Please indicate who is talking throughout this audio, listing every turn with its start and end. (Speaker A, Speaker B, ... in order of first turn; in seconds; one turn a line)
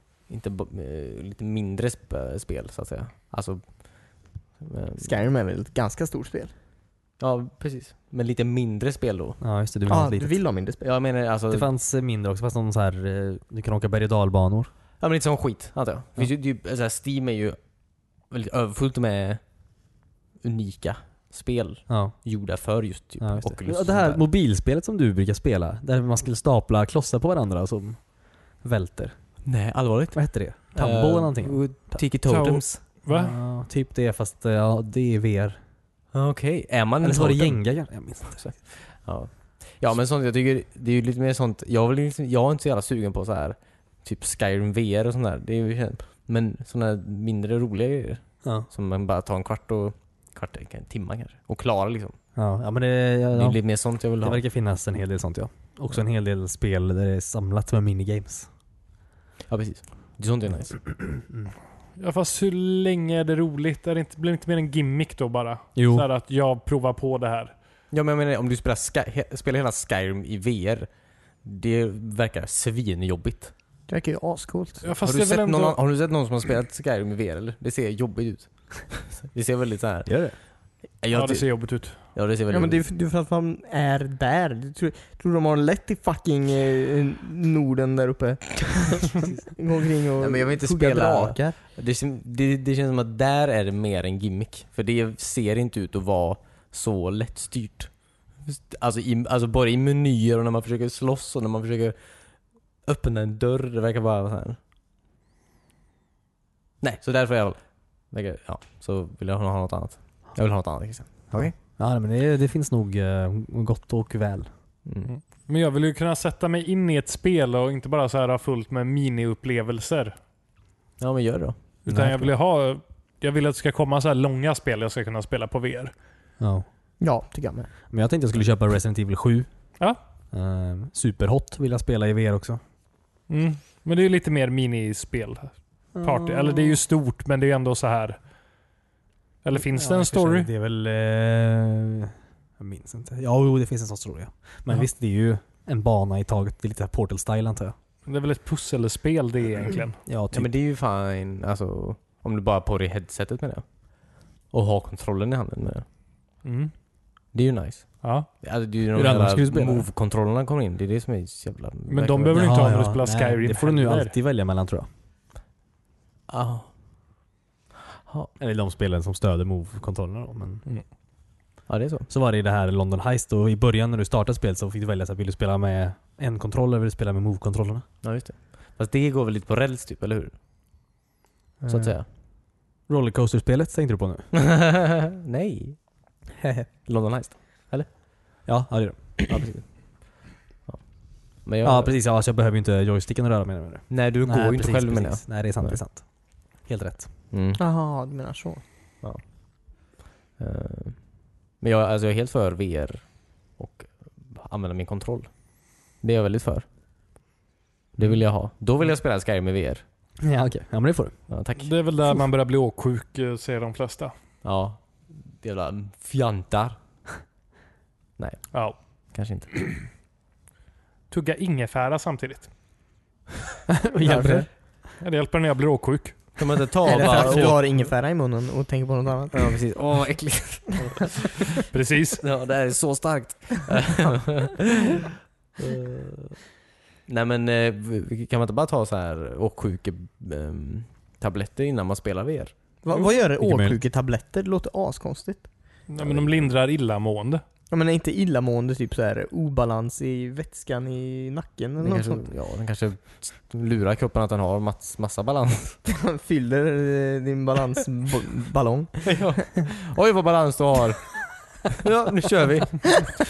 Speaker A: 0.3-5.2
Speaker B: 5.0-6.5
Speaker A: 7.2-9.4
Speaker C: 9.4-10.4
Speaker B: 9.9-10.8
Speaker A: 10.8-11.7
Speaker C: 11.5-14.7
Speaker A: 15.0-17.6
Speaker A: 18.1-19.4
Speaker A: 20.4-24.2
Speaker C: 21.9-22.1
Speaker C: 23.2-29.4
Speaker A: 29.4-32.8
Speaker C: 30.1-32.0
Speaker D: 32.3-33.4
Speaker C: 33.1-35.6
Speaker A: 36.1-37.6
Speaker C: 37.0-38.6
Speaker A: 38.3-52.2
Speaker C: 52.4-58.5
Speaker A: 53.3-54.4
Speaker A: 59.5-60.8
Speaker D: 62.0-67.5
Speaker C: 65.8-66.1
Speaker A: 67.9-73.5
Speaker B: 73.9-74.9
Speaker D: 74.8-75.8
Speaker A: 75.0-82.9
Speaker C: 80.1-80.4
Speaker D: 81.1-82.1
Speaker B: 82.5-91.5
Speaker A: 90.2-104.6
Speaker A: 106.8-111.5
Speaker C: 111.3-114.5
Speaker A: 114.8-115.1
Speaker D: 115.1-120.2
Speaker A: 121.0-121.6
Speaker D: 121.8-125.9
Speaker C: 121.9-122.3
Speaker C: 126.4-126.7
Speaker B: 127.0-127.7
Speaker C: 127.9-129.8
Speaker C: 130.3-132.6
Speaker D: 133.3-138.2
Speaker C: 136.0-136.8
Speaker D: 139.4-140.5
Speaker C: 139.5-147.8
Speaker D: 148.1-150.0
Speaker C: 150.1-150.5
Speaker A: 150.3-155.9
Speaker D: 156.4-156.7
Speaker A: 157.3-162.6
Speaker D: 158.0-158.3
Speaker C: 158.9-159.9
Speaker D: 161.9-164.1
Speaker C: 162.3-164.9
Speaker A: 166.3-166.7
Speaker C: 168.4-170.6
Speaker A: 171.7-172.1
Speaker C: 172.1-177.8
Speaker A: 178.0-180.4
Speaker C: 181.6-181.9
Speaker A: 181.7-182.1
Speaker C: 182.9-184.3
Speaker A: 184.3-185.8
Speaker B: 186.4-186.7
Speaker A: 186.8-187.9
Speaker C: 188.5-189.3
Speaker A: 189.3-192.0
Speaker C: 191.6-197.1
Speaker A: 193.9-195.8
Speaker A: 197.3-197.6
Speaker B: 197.6-198.6
Speaker A: 200.4-206.7
Speaker A: 208.0-209.8
Speaker C: 210.2-211.2
Speaker A: 211.3-211.7
Speaker D: 211.6-214.1
Speaker A: 214.4-216.8
Speaker A: 218.2-219.5
Speaker D: 218.5-218.8
Speaker D: 221.1-222.5
Speaker C: 223.7-224.5
Speaker B: 224.1-224.4
Speaker D: 225.0-227.6
Speaker A: 226.4-227.6
Speaker B: 226.9-229.5
Speaker A: 229.3-231.6
Speaker D: 231.7-232.2
Speaker A: 232.2-236.4
Speaker A: 237.1-242.5
Speaker B: 242.8-245.5
Speaker C: 243.4-243.8
Speaker D: 245.9-247.4
Speaker A: 246.0-246.5
Speaker B: 247.7-252.3
Speaker A: 251.8-255.8
Speaker B: 255.9-259.2
Speaker A: 259.0-263.1